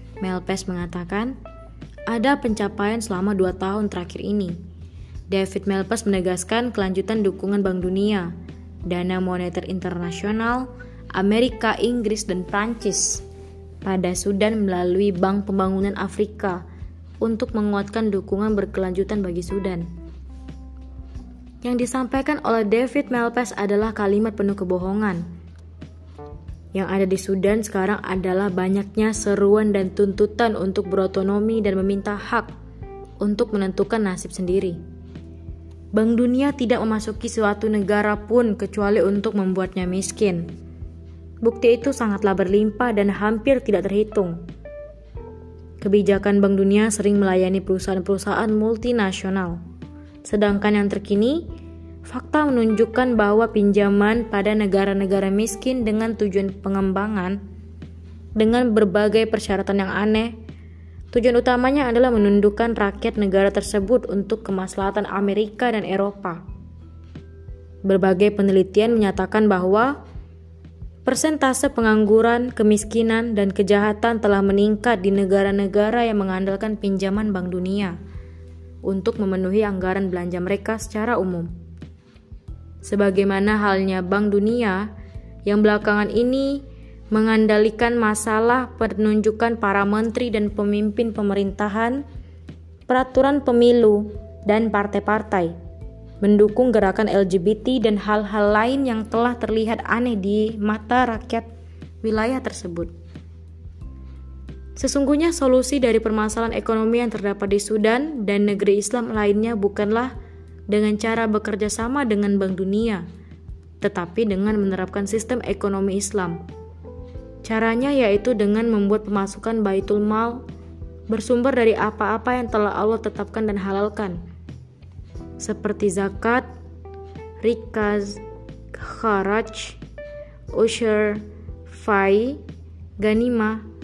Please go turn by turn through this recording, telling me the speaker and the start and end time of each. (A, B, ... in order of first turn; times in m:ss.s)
0:00.2-0:01.4 A
0:02.1-0:04.6 A
0:05.3-0:08.3 A
0:08.9-0:13.2 A
0:13.8-0:16.6 A
0:17.2-0:19.9 A
0:21.6-0:25.3 A
0:26.7-0:32.5 A
0:33.2-0:34.8 A
0:35.9-0:40.5 A
0:41.4-0:44.4 A
0:45.8-0:49.6 A
0:50.2-0:51.4 A
0:52.1-0:57.4 A
0:58.4-1:00.3 A
1:01.1-1:06.4 A
1:07.8-1:10.0 A
1:11.0-1:18.0 A
1:18.8-1:21.5 A
1:22.8-1:24.9 A
1:25.4-1:32.0 A
1:32.9-1:35.5 A
1:36.2-1:41.5 A
1:42.0-1:42.9 A
1:44.8-1:50.1 A
1:50.7-1:53.0 A
1:53.8-1:56.4 A
1:57.4-2:00.4 A
2:01.1-2:04.2 A
2:05.4-2:06.5 A
2:07.4-2:09.8 A
2:10.5-2:12.4 A
2:13.0-2:13.6 A